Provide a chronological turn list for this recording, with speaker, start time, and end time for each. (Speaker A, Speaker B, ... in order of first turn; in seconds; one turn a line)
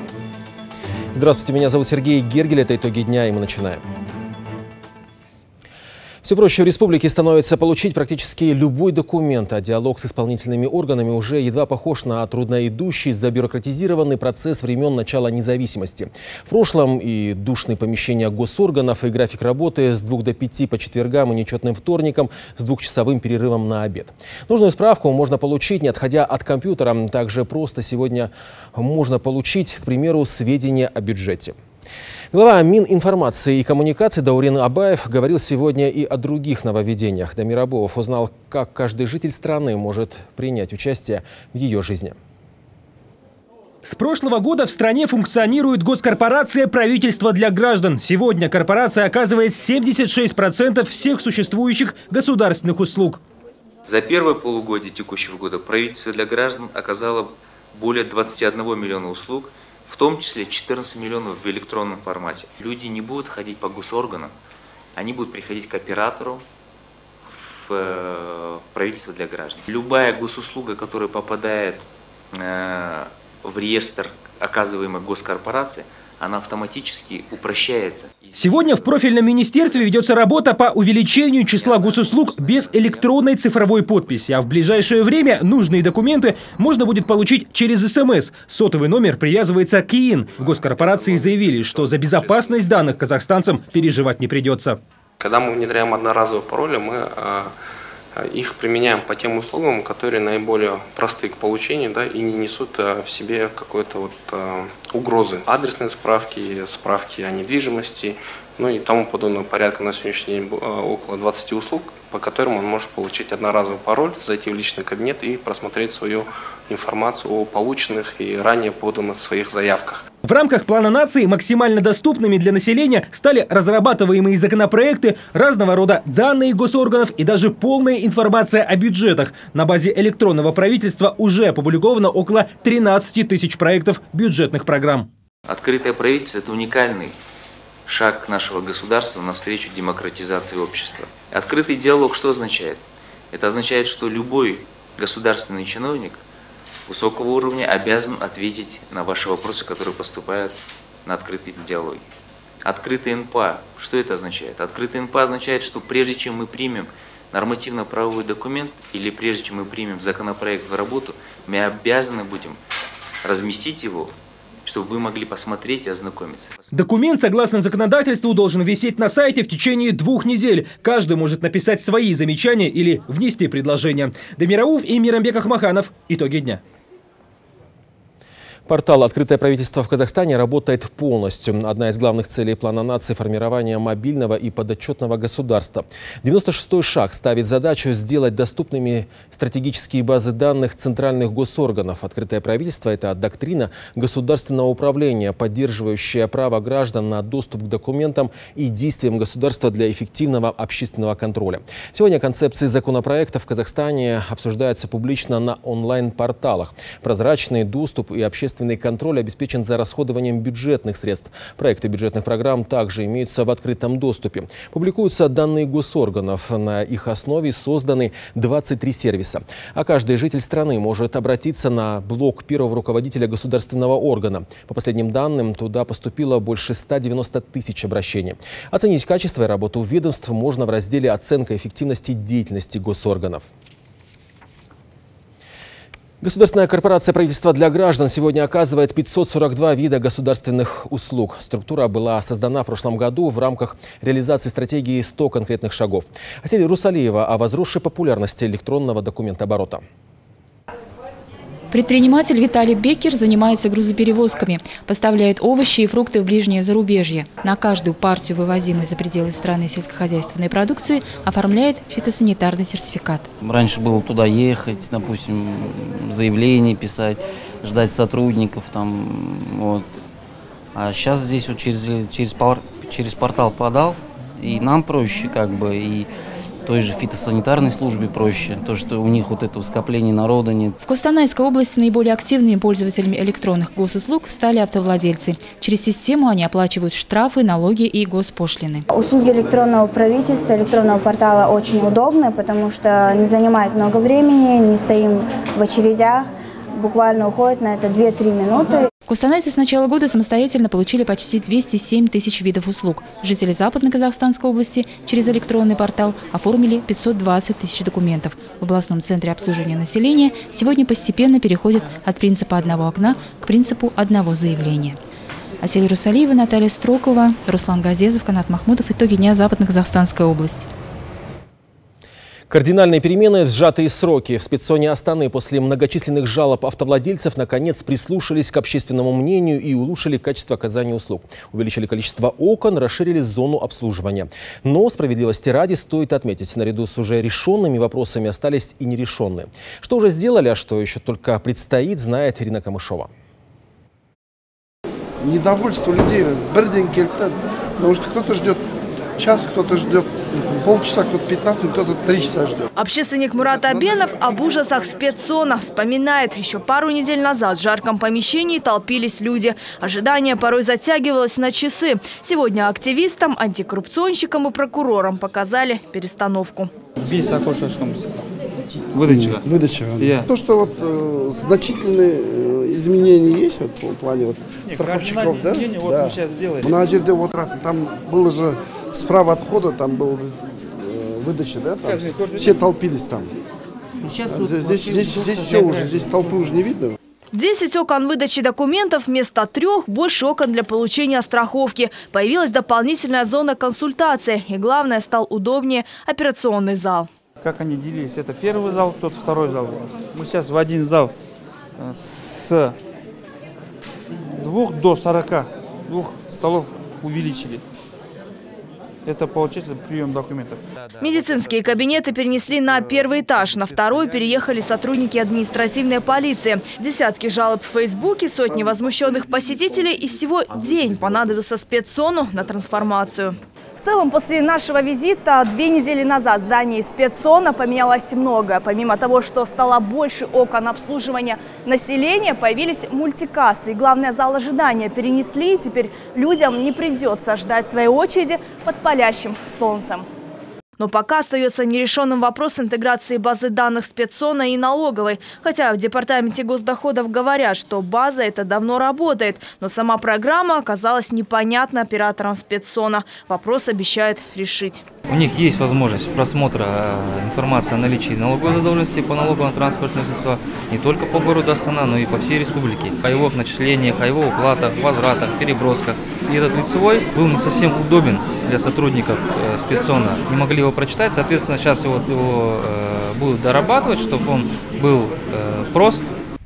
Speaker A: 1.1-3.8
Speaker A: 6.2-31.6
Speaker A: 32.3-42.2
Speaker B: 43.8-53.2
Speaker C: 53.8-64.3
Speaker C: 65.0-66.4
Speaker C: 67.2-78.5
Speaker B: 78.3-94.8
Speaker C: 81.6-83.0
Speaker D: 90.5-92.7
Speaker D: 95.2-97.5
Speaker D: 98.1-120.0
Speaker B: 120.2-135.1
Speaker C: 135.5-137.2
Speaker C: 137.9-146.2
Speaker C: 146.9-152.0
Speaker C: 152.6-162.6
Speaker C: 163.2-166.6
Speaker B: 166.7-176.6
Speaker A: 178.7-233.4
Speaker A: 236.2-249.8
Speaker E: 251.7-263.3
Speaker F: 263.4-269.9
Speaker F: 270.7-276.1
Speaker F: 276.6-280.8
Speaker E: 280.8-288.8
Speaker G: 288.9-298.8
Speaker E: 299.1-315.0
Speaker E: 315.6-320.7
Speaker A: 322.5-343.1
Speaker H: 345.2-348.6
Speaker H: 349.2-352.7
Speaker I: 352.8-366.7
Speaker H: 353.5-354.2
Speaker J: 367.0-368.2
Speaker J: 368.9-369.4
Speaker H: 369.0-383.3
Speaker J: 370.0-370.3
Speaker J: 374.6-376.8
Speaker J: 381.8-382.7
Speaker J: 384.0-386.3
Speaker H: 384.2-386.9
Speaker I: 387.3-397.1
Speaker J: 397.4-401.1
Speaker J: 401.8-402.7
Speaker J: 404.4-407.6
Speaker J: 409.0-410.6
Speaker I: 411.0-440.1
Speaker I: 440.8-454.9
Speaker K: 455.1-476.1